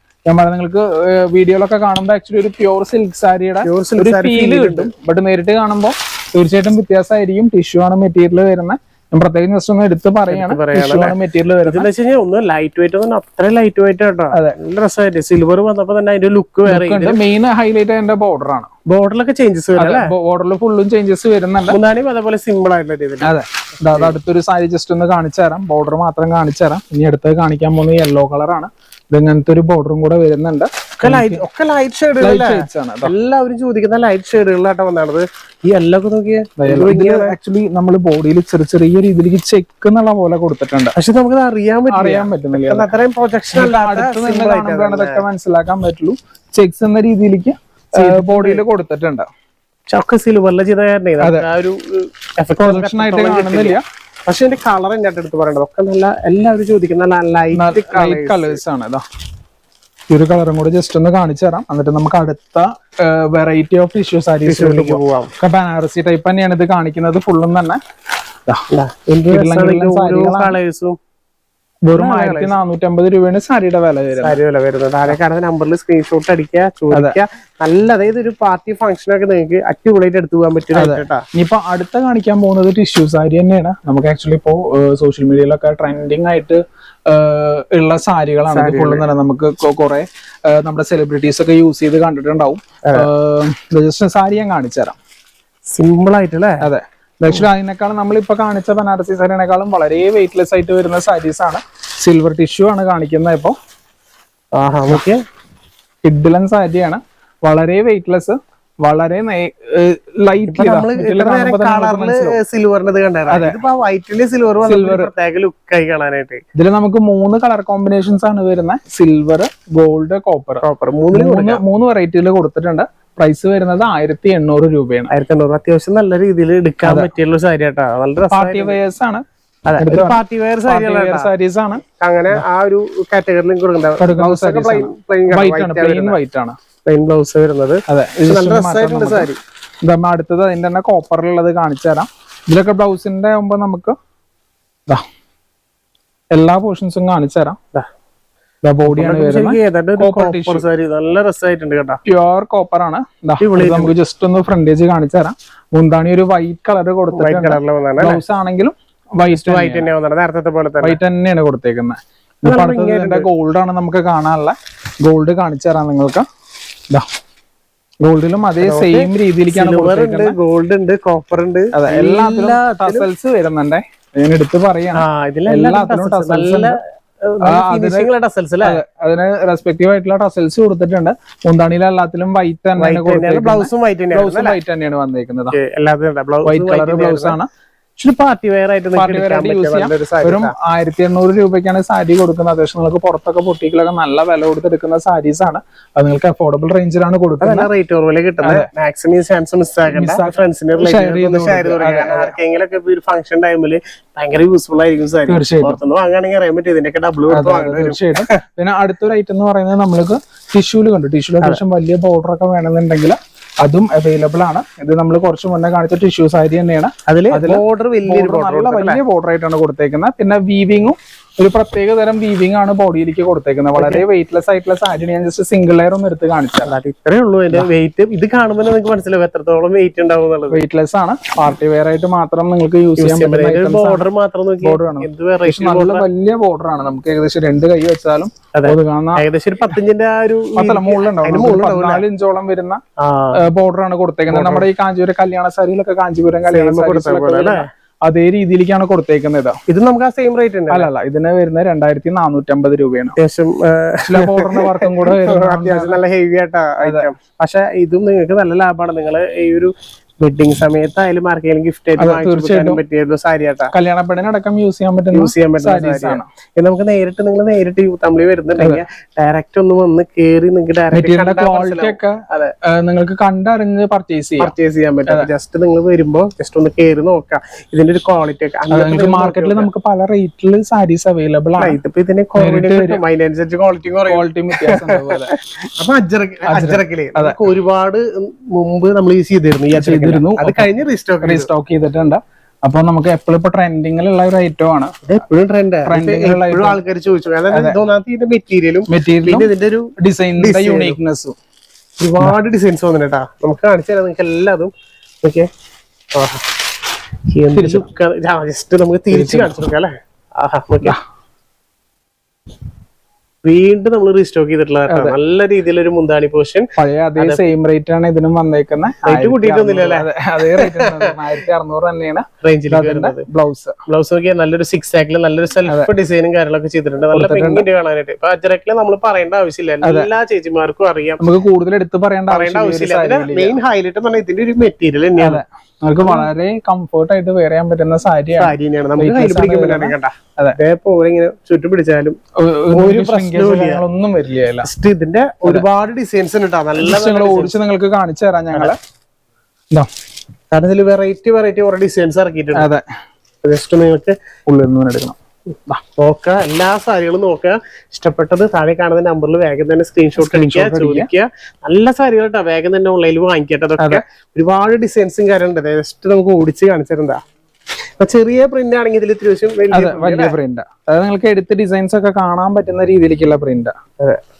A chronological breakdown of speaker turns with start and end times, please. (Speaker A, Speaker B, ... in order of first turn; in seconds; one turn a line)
Speaker A: 0.3-11.9
Speaker B: 3.6-4.9
Speaker B: 10.3-17.2
Speaker A: 14.3-14.6
Speaker A: 16.6-18.7
Speaker B: 18.9-20.1
Speaker A: 19.8-21.8
Speaker B: 21.7-24.1
Speaker A: 23.2-31.4
Speaker B: 31.0-37.3
Speaker A: 32.2-33.1
Speaker A: 36.6-41.0
Speaker B: 41.0-45.2
Speaker A: 41.9-42.9
Speaker A: 43.5-49.3
Speaker B: 47.9-48.6
Speaker B: 49.9-58.6
Speaker A: 51.2-51.5
Speaker A: 52.6-53.8
Speaker A: 57.5-59.0
Speaker A: 60.1-67.8
Speaker B: 64.5-65.3
Speaker B: 68.7-71.0
Speaker A: 69.3-70.6
Speaker A: 71.8-74.4
Speaker B: 71.9-72.5
Speaker B: 74.2-81.2
Speaker A: 76.9-77.2
Speaker A: 80.7-95.0
Speaker B: 88.5-89.1
Speaker B: 95.7-96.7
Speaker A: 96.6-103.6
Speaker B: 104.5-105.2
Speaker A: 106.0-112.4
Speaker B: 110.5-116.4
Speaker A: 113.3-113.6
Speaker A: 114.6-115.1
Speaker A: 116.5-125.1
Speaker B: 120.6-121.6
Speaker B: 125.1-128.8
Speaker A: 126.8-127.1
Speaker A: 128.3-129.2
Speaker B: 129.7-131.3
Speaker A: 129.8-132.4
Speaker B: 132.0-136.2
Speaker A: 134.0-136.6
Speaker B: 136.8-139.4
Speaker A: 137.9-139.3
Speaker A: 139.8-143.9
Speaker A: 146.3-147.6
Speaker A: 148.6-150.7
Speaker B: 148.9-152.0
Speaker A: 152.0-159.9
Speaker B: 153.4-153.9
Speaker B: 157.1-158.2
Speaker B: 159.3-161.0
Speaker A: 160.8-166.2
Speaker B: 162.4-163.3
Speaker A: 168.0-170.4
Speaker B: 168.6-173.1
Speaker A: 171.7-176.8
Speaker B: 174.9-178.8
Speaker A: 177.4-178.1
Speaker A: 178.6-185.6
Speaker B: 182.8-184.6
Speaker B: 185.5-187.4
Speaker A: 186.4-187.5
Speaker B: 188.0-190.5
Speaker A: 188.9-197.7
Speaker B: 197.4-208.4
Speaker A: 198.4-198.7
Speaker A: 199.9-202.3
Speaker A: 205.3-205.8
Speaker A: 207.3-226.7
Speaker B: 217.1-219.0
Speaker B: 223.8-224.0
Speaker B: 226.6-230.6
Speaker A: 230.5-234.1
Speaker B: 233.0-236.0
Speaker A: 234.6-239.2
Speaker B: 238.5-242.0
Speaker A: 240.6-242.8
Speaker B: 243.0-243.4
Speaker A: 243.4-249.6
Speaker B: 244.3-244.7
Speaker B: 246.5-247.7
Speaker B: 249.7-250.9
Speaker A: 250.7-253.1
Speaker B: 253.2-263.7
Speaker A: 254.1-256.0
Speaker A: 256.8-257.1
Speaker A: 262.0-262.8
Speaker A: 263.7-266.3
Speaker B: 265.1-272.5
Speaker A: 270.9-274.5
Speaker B: 274.4-279.7
Speaker A: 278.7-281.8
Speaker B: 281.6-291.5
Speaker A: 282.4-283.0
Speaker A: 284.1-285.3
Speaker A: 286.4-287.4
Speaker A: 289.7-294.9
Speaker B: 295.0-301.0
Speaker A: 295.9-296.8
Speaker A: 297.5-297.8
Speaker A: 298.9-301.4
Speaker B: 302.0-305.5
Speaker B: 306.1-306.5
Speaker B: 307.3-311.0
Speaker A: 307.5-307.9
Speaker A: 309.1-309.7
Speaker B: 313.4-317.4
Speaker A: 314.9-315.2
Speaker A: 316.8-323.7
Speaker B: 319.1-321.1
Speaker B: 322.4-323.2
Speaker B: 323.9-331.2
Speaker A: 327.1-327.6
Speaker A: 329.8-330.1
Speaker A: 331.2-333.6
Speaker B: 332.3-335.4
Speaker A: 335.2-340.6
Speaker B: 338.4-342.2
Speaker A: 342.4-344.7
Speaker B: 342.7-343.8
Speaker B: 344.6-347.5
Speaker A: 346.8-348.8
Speaker B: 350.5-352.7
Speaker A: 352.6-352.8
Speaker B: 353.4-354.1
Speaker A: 354.5-355.1
Speaker B: 356.0-367.2
Speaker A: 360.2-361.1
Speaker B: 368.0-370.4
Speaker A: 369.7-373.7